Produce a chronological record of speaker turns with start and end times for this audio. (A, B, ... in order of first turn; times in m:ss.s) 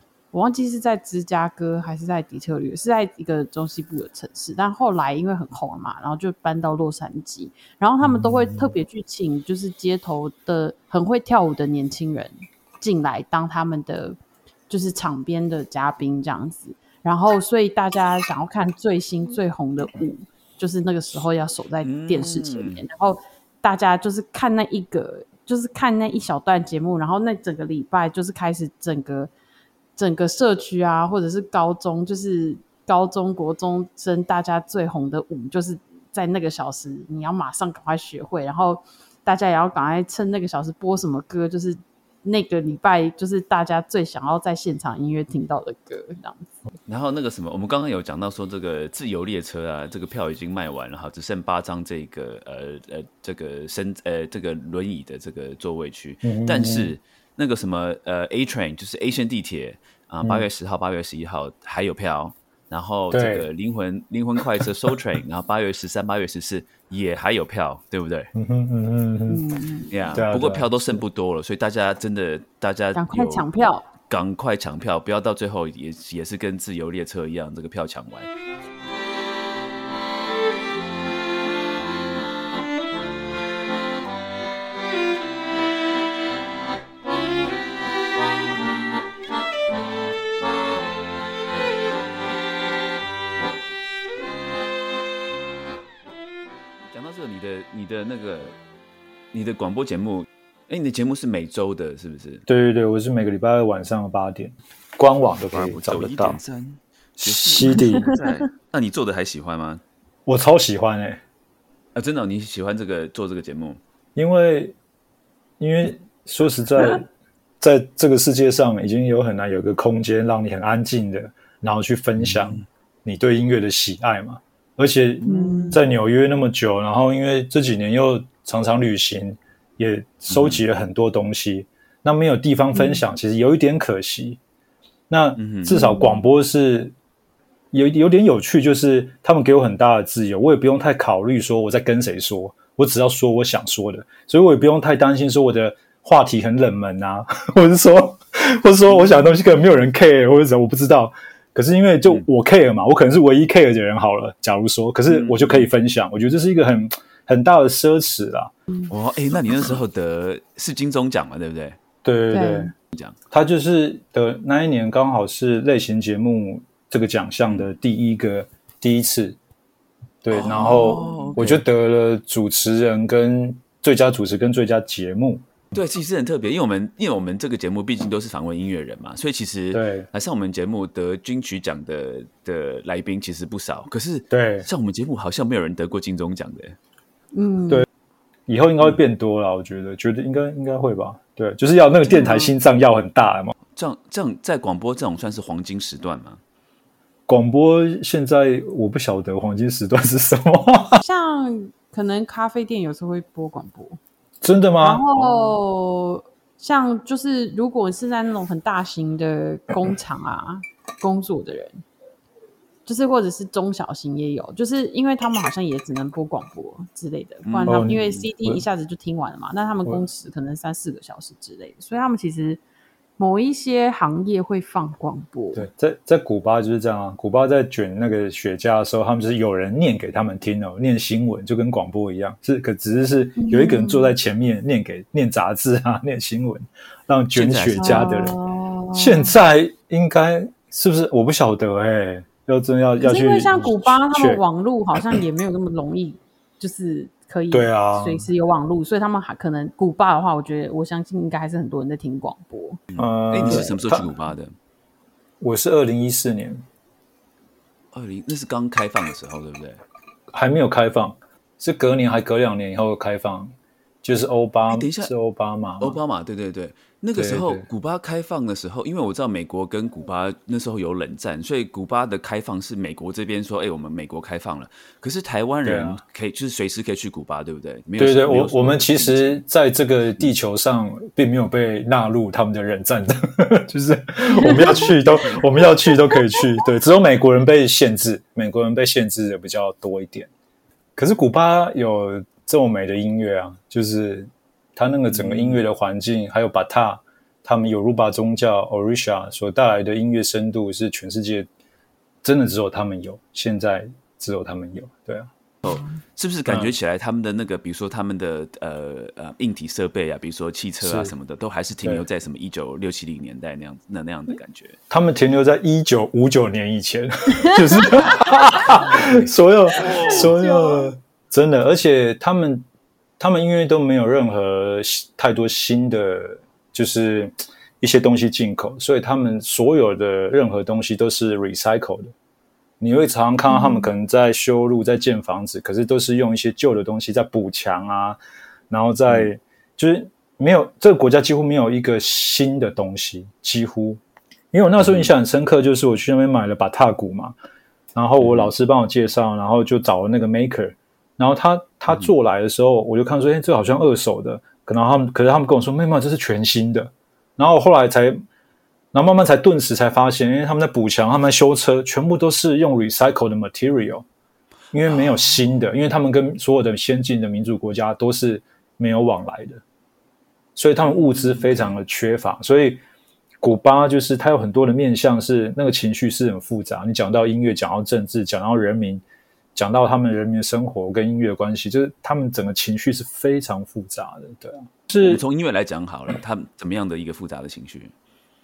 0:00.3-0:14.2 A
0:08.0-0:08.7 B
0:14.7-0:29.3 A
0:21.8-0:22.8 C
0:30.0-0:46.5 A
0:46.9-1:08.3 C
0:56.2-0:57.0 B
1:03.1-1:03.5 B
1:08.4-1:09.4 B
1:09.3-1:09.9 A
1:09.9-1:13.5 C
1:10.1-1:11.0 B
1:13.0-1:13.9 A
1:14.1-1:18.3 C
1:36.9-1:38.6 C
1:39.3-1:42.5 C
1:42.5-1:46.4 B
1:45.5-1:49.8 C
1:47.2-1:48.1 B
1:47.6-1:48.2 A
1:50.3-1:51.2 B
1:52.0-1:53.8 C
1:54.2-1:54.8 B
1:55.6-1:57.1 B
1:57.6-2:14.4 B
2:02.2-2:02.6 C
2:05.2-2:05.8 C
2:05.2-2:05.8 A
2:10.3-2:10.6 C
2:12.7-2:13.0 A
2:15.1-2:17.0 B
2:15.4-2:15.8 C
2:15.7-2:16.1 A
2:17.7-2:38.5 B
2:35.1-2:35.7 C
2:38.9-2:41.8 C
2:42.0-2:42.7 B
2:42.3-2:42.7 A
2:43.3-2:49.4 B
2:50.2-2:55.4 B
2:50.3-2:51.6 C
2:55.7-3:06.8 C
2:59.7-3:00.1 B
3:04.3-3:04.7 B
3:07.3-3:07.9 A
3:08.5-3:13.5 B
3:12.0-3:12.5 A
3:13.8-3:16.4 C
3:17.3-3:21.0 B
3:21.0-3:24.0 A
3:24.4-3:25.5 B
3:24.8-3:31.8 A
3:32.9-3:42.6 A
3:37.4-3:38.0 C
3:37.7-3:38.6 B
3:43.2-3:45.6 A
3:45.6-3:58.4 B
3:53.4-3:54.2 A
3:57.4-3:58.2 C
3:57.8-3:59.3 A
3:58.9-4:04.4 B
4:03.0-4:12.8 A
4:05.0-4:05.2 B
4:07.5-4:08.3 B
4:12.9-4:14.6 C
4:13.0-4:14.1 B
4:15.4-4:16.6 B
4:17.9-4:19.8 C
4:20.3-4:26.0 B
4:24.7-4:25.1 C
4:25.8-4:39.4 C
4:27.2-4:27.7 B
4:35.6-4:36.0 B
4:38.0-4:50.3 B
4:44.3-4:44.9 A
4:51.0-5:01.5 B
4:55.1-4:55.6 C
5:02.2-5:05.3 B
5:05.6-5:14.8 C
5:10.8-5:11.1 B
5:14.9-5:22.7 B
5:17.5-5:18.0 A
5:18.7-5:20.3 C
5:19.8-5:20.9 A
5:23.2-5:32.1 B
5:32.8-5:38.2 B
5:33.5-5:33.9 A
5:38.7-5:44.0 B
5:44.5-5:47.4 B
5:44.8-5:45.1 C
5:48.0-5:58.2 B
5:48.2-5:48.5 C
5:58.9-6:04.1 B
6:04.7-6:09.6 B
6:04.8-6:05.2 C
6:10.6-6:12.8 B
6:10.8-6:11.8 C
6:13.4-6:19.0 B
6:19.6-6:25.2 B
6:24.9-6:27.9 C